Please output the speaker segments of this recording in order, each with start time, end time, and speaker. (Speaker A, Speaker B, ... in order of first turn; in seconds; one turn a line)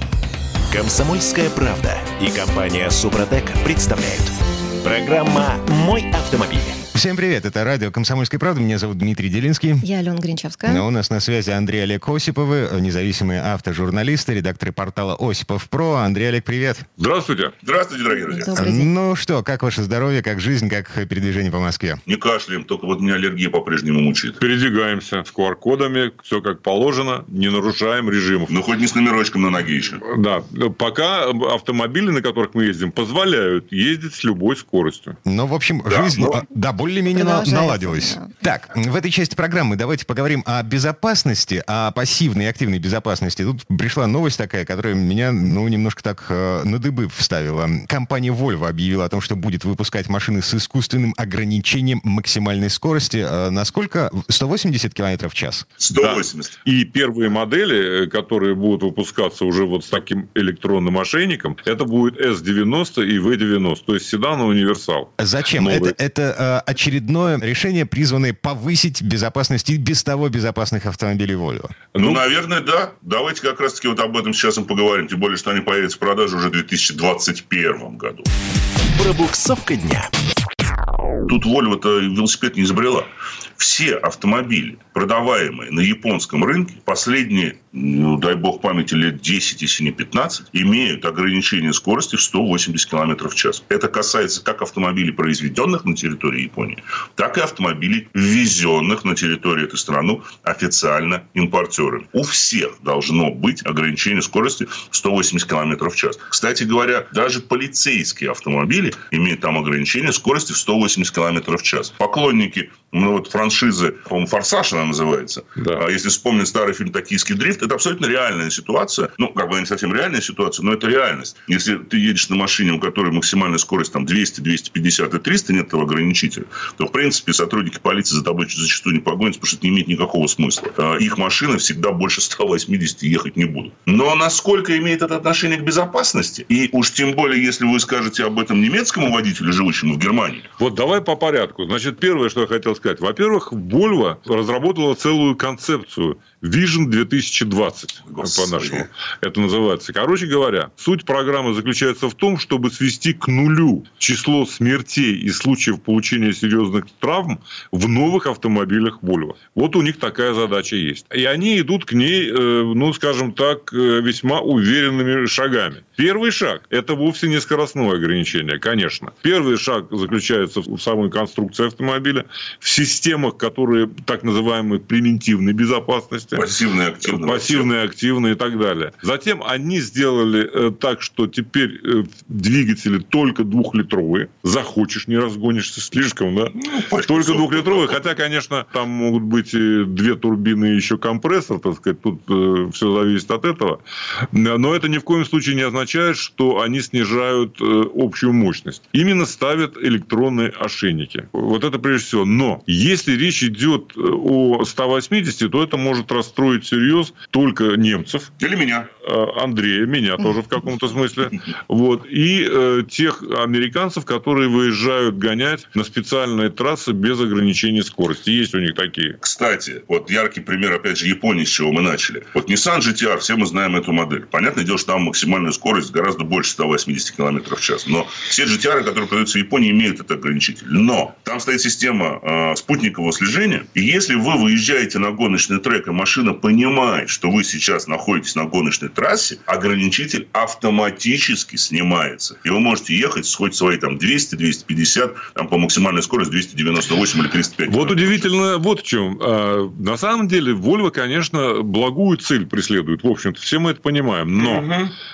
Speaker A: 0.7-6.8
Speaker B: 6.9-9.8
Speaker C: 9.8-10.8
Speaker B: 10.7-16.9
Speaker D: 17.0-17.5
Speaker E: 17.6-18.6
Speaker C: 18.1-18.9
Speaker B: 18.6-22.0
Speaker E: 22.1-24.4
Speaker D: 24.4-28.5
Speaker E: 28.5-30.0
Speaker D: 30.1-35.2
Speaker B: 35.2-55.7
Speaker E: 35.9-36.4
Speaker C: 37.1-38.3
Speaker E: 55.8-56.5
Speaker D: 56.0-66.0
Speaker B: 65.2-71.8
Speaker D: 71.9-72.2
Speaker E: 72.0-78.3
Speaker A: 79.0-80.1
Speaker E: 81.3-140.5
Speaker D: 140.6-193.8
Speaker E: 148.1-148.9
Speaker E: 176.4-177.7
Speaker E: 186.6-188.0
Speaker D: 194.3-208.3
Speaker E: 208.4-208.9
Speaker D: 209.0-219.2
Speaker E: 219.2-248.3
Speaker D: 247.7-254.7
Speaker E: 254.4-254.9